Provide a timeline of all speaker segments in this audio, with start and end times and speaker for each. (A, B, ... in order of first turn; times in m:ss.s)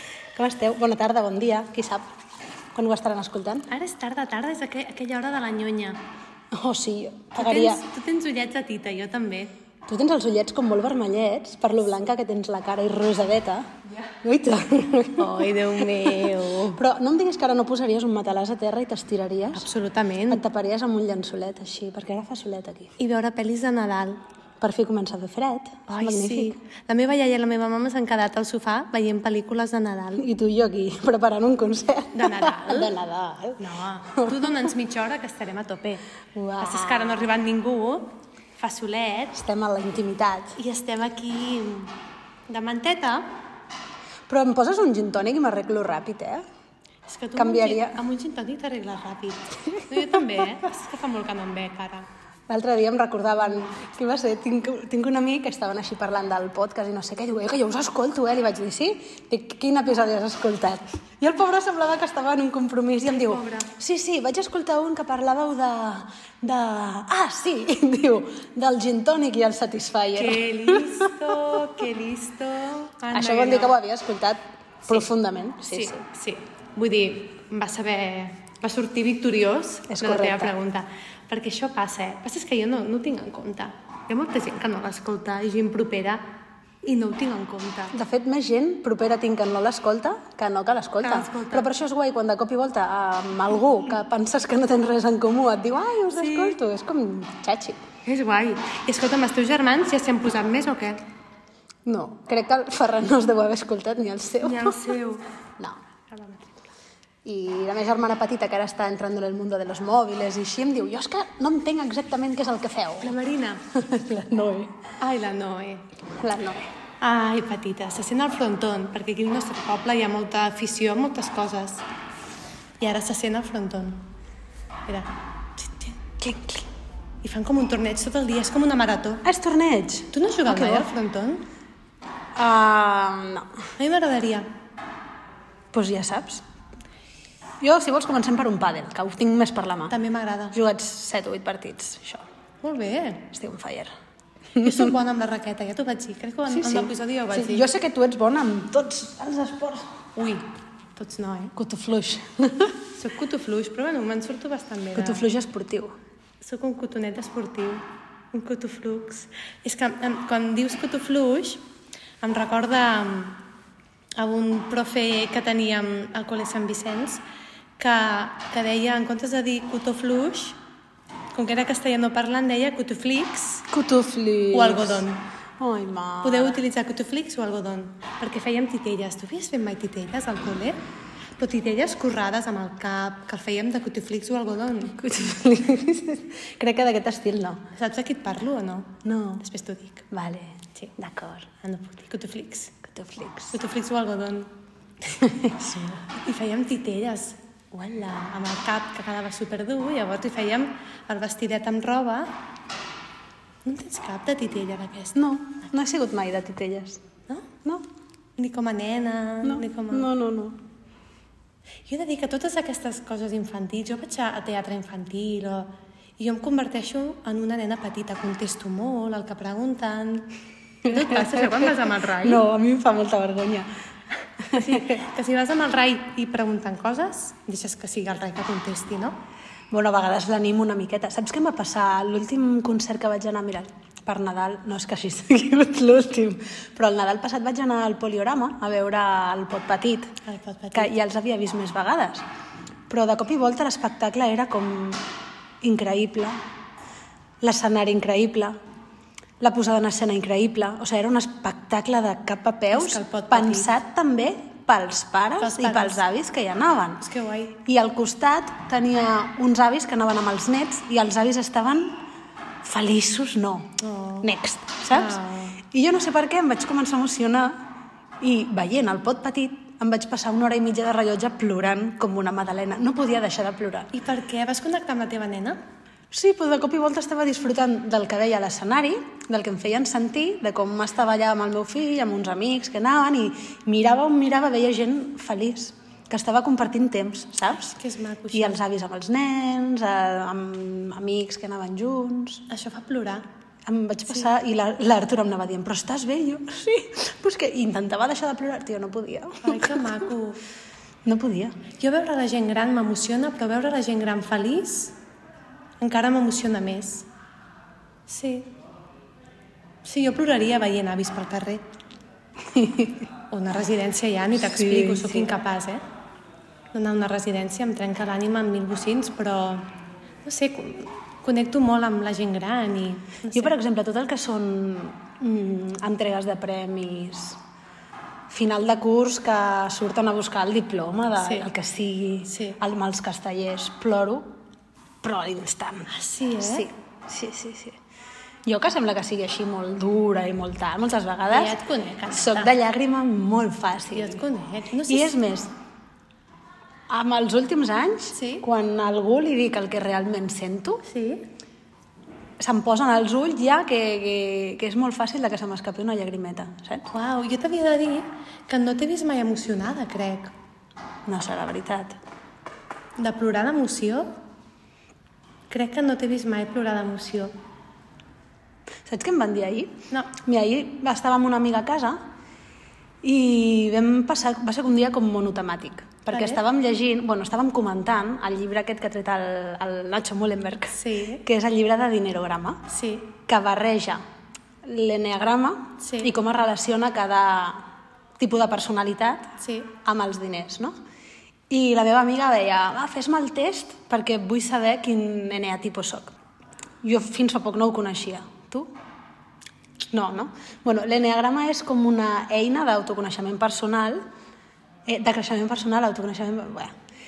0:00.3-0:02.1 A
0:02.7-0:03.7 A
0:03.7-0:06.0 B
0:06.5-0:07.8 A
0:07.4-0:09.5 B
0:09.9-0:19.7 A
0:15.2-0:16.8 B
0:19.5-0:20.4 B
0:20.3-0:23.0 A
0:23.0-0:24.2 B
0:24.6-0:26.6 A
0:25.9-0:30.2 B
0:30.2-0:33.6 A
0:32.1-0:32.9 B
0:33.6-0:36.0 B
0:36.3-0:37.3 A
0:36.6-0:39.3 B
0:39.3-0:40.6 A
0:40.6-0:42.0 B
0:42.5-0:43.3 B
0:44.3-0:46.4 A
0:47.1-0:52.1 B
0:47.4-0:48.0 A
0:52.5-1:11.1 A
1:03.0-1:03.7 B
1:10.1-1:13.8 B
1:13.1-1:16.0 A
1:15.7-1:26.2 B
1:19.9-1:20.5 A
1:26.8-1:27.9 B
1:27.9-1:37.8 A
1:31.0-1:31.7 B
1:36.1-1:36.6 B
1:38.0-1:41.0 B
1:41.8-1:44.8 A
1:44.4-1:45.2 B
1:46.1-1:46.5 B
1:47.2-1:53.1 A
1:53.0-1:53.6 B
1:53.7-1:54.7 A
1:55.0-1:55.9 B
1:56.2-1:56.7 A
1:57.0-2:01.8 B
2:02.8-2:04.1 B
2:04.9-2:06.0 B
2:06.2-2:06.7 A
2:07.2-2:09.2 B
2:09.2-2:10.9 A
2:10.1-2:11.5 B
2:12.3-2:13.5 A
2:13.8-2:14.4 B
2:15.7-2:16.4 A
2:17.6-2:19.9 A
2:19.9-2:20.6 B
2:20.5-2:22.2 A
2:22.6-2:23.3 B
2:23.3-2:23.9 A
2:24.6-2:24.9 A
2:24.6-2:27.7 B
2:26.5-2:29.9 A
2:30.1-2:31.5 B
2:31.6-2:32.8 A
2:32.9-2:35.2 B
2:35.0-2:36.0 A
2:36.4-2:41.6 B
2:42.2-2:43.4 B
2:44.2-2:47.2 B
2:47.8-2:50.6 B
2:51.3-2:53.7 B
2:53.7-2:55.0 A
2:54.5-2:55.2 B
2:55.6-2:56.6 A
2:56.2-3:00.8 B
3:01.4-3:05.0 B
3:05.0-3:07.6 A
3:07.7-3:10.1 B
3:09.0-3:09.4 A
3:10.1-3:11.5 A
3:11.6-3:12.7 B
3:12.8-3:13.6 A
3:13.5-3:14.5 B
3:15.1-3:22.3 B
3:23.6-3:25.2 B
3:25.1-3:27.0 A
3:28.4-3:30.1 B
3:29.4-3:30.6 A
3:31.8-3:40.3 B
3:40.8-3:42.4 B
3:40.8-3:43.7 A
3:44.5-3:44.8 A
3:44.5-3:49.2 B
3:49.7-4:00.1 A
4:00.2-4:00.9 B
4:00.7-4:02.2 A
4:02.9-4:05.0 A
4:05.6-4:06.4 A
4:07.4-4:08.6 A
4:09.4-4:17.0 A
4:12.7-4:13.7 B
4:15.4-4:16.0 B
4:17.0-4:17.6 B
4:17.6-4:22.0 A
4:22.6-4:25.2 A
4:23.8-4:24.3 B
4:24.9-4:25.6 B
4:25.7-4:27.6 A
4:28.2-4:33.9 A
4:33.9-4:35.6 B
4:36.1-4:47.8 A
4:47.7-4:48.6 B
4:48.3-4:52.4 A
4:52.5-4:53.2 B
4:53.6-4:59.9 A
4:59.4-5:00.4 B
5:01.0-5:01.5 A
5:01.8-5:05.0 B
5:05.8-5:07.1 B
5:08.1-5:08.5 B
5:09.8-5:11.6 B
5:12.5-5:13.0 A
5:13.3-5:15.8 B
5:14.3-5:15.3 A
5:16.7-5:19.7 B
5:20.2-5:23.5 B
5:23.3-5:27.4 A
5:28.3-5:34.4 A
5:31.2-5:31.5 B
5:32.3-5:32.6 B
5:35.0-5:35.9 A
5:35.9-5:36.7 B
5:36.4-5:37.8 A
5:38.4-5:41.5 A
5:41.3-5:42.5 B
5:42.1-5:44.2 A
5:43.9-5:45.2 B
5:44.9-5:45.5 A
5:46.9-5:50.8 A
5:48.1-5:48.4 B
5:50.8-5:51.3 B
5:52.4-5:56.9 A
5:56.9-6:00.3 B
6:01.1-6:02.0 A
6:03.0-6:04.1 B
6:05.5-6:07.3 B
6:08.8-6:12.0 A
6:13.0-6:22.6 A
6:16.1-6:16.4 B
6:20.7-6:21.2 B
6:22.7-6:23.1 B
6:23.3-6:24.0 A
6:24.6-6:27.6 A
6:25.8-6:26.1 B
6:28.2-6:30.7 A
6:29.4-6:29.7 B
6:31.5-6:36.1 A
6:36.8-6:38.7 A
6:39.9-6:44.0 A
6:44.9-6:46.7 A